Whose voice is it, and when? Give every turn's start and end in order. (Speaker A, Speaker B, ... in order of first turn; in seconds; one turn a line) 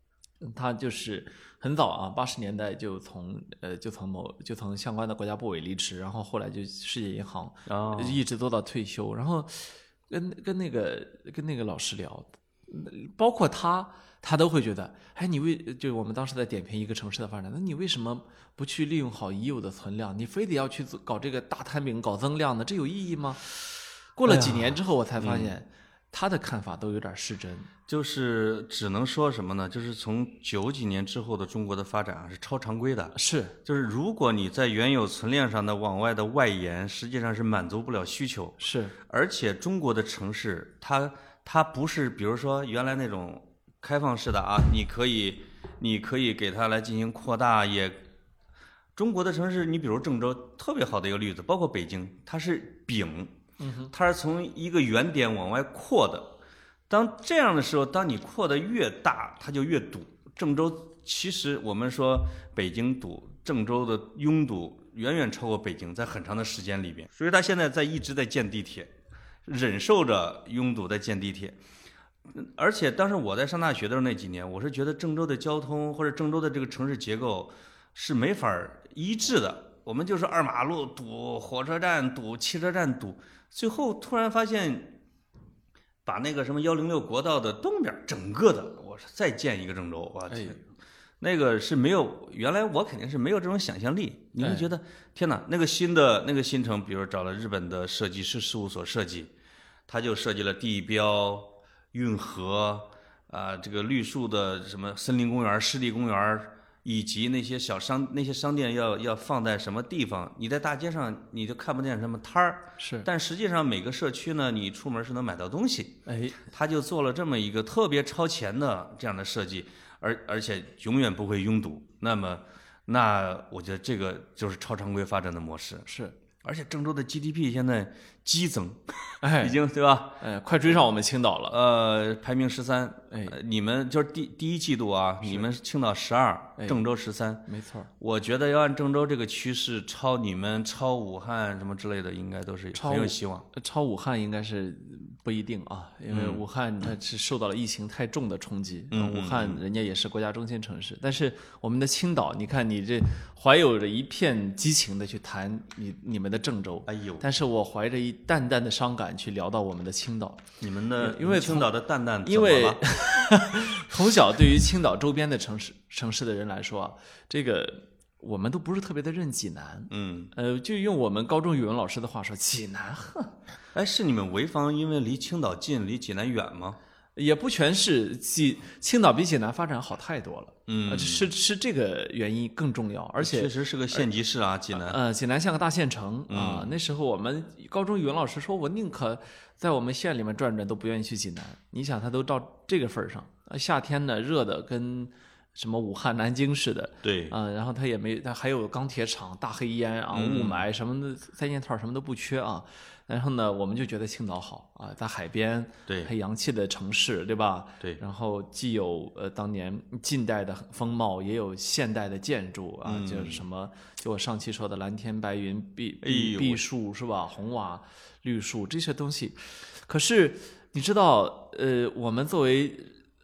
Speaker A: 0.4-23.5
Speaker B: 7.7-8.2
Speaker A: 24.1-27.7
Speaker B: 24.2-25.5
Speaker B: 27.9-48.0
Speaker A: 33.1-33.5
Speaker A: 38.6-38.9
Speaker B: 49.0-53.3
Speaker A: 53.6-53.9
Speaker B: 53.9-56.4
Speaker B: 56.9-68.9
Speaker B: 69.4-71.6
Speaker B: 72.3-85.0
Speaker B: 86.0-90.6
Speaker A: 90.3-90.6
Speaker B: 91.2-99.3
Speaker A: 94.4-94.7
Speaker B: 99.9-125.9
Speaker A: 112.8-113.1
Speaker A: 116.0-116.4
Speaker A: 125.9-126.1
Speaker B: 126.4-130.2
Speaker A: 129.2-129.6
Speaker A: 130.2-131.6
Speaker B: 131.5-137.5
Speaker A: 136.6-136.8
Speaker A: 137.4-137.9
Speaker B: 138.0-143.4
Speaker A: 142.7-160.4
Speaker B: 146.1-146.4
Speaker B: 148.9-149.6
Speaker B: 156.8-157.2
Speaker B: 160.6-162.8
Speaker A: 161.0-161.7
Speaker A: 162.2-173.3
Speaker B: 169.9-170.3
Speaker B: 173.7-176.8
Speaker A: 177.2-184.1
Speaker B: 180.7-181.3
Speaker B: 183.2-185.0
Speaker A: 184.7-222.9
Speaker B: 186.3-186.8
Speaker B: 197.0-197.3
Speaker B: 200.1-200.6
Speaker B: 212.8-213.4
Speaker B: 216.0-216.6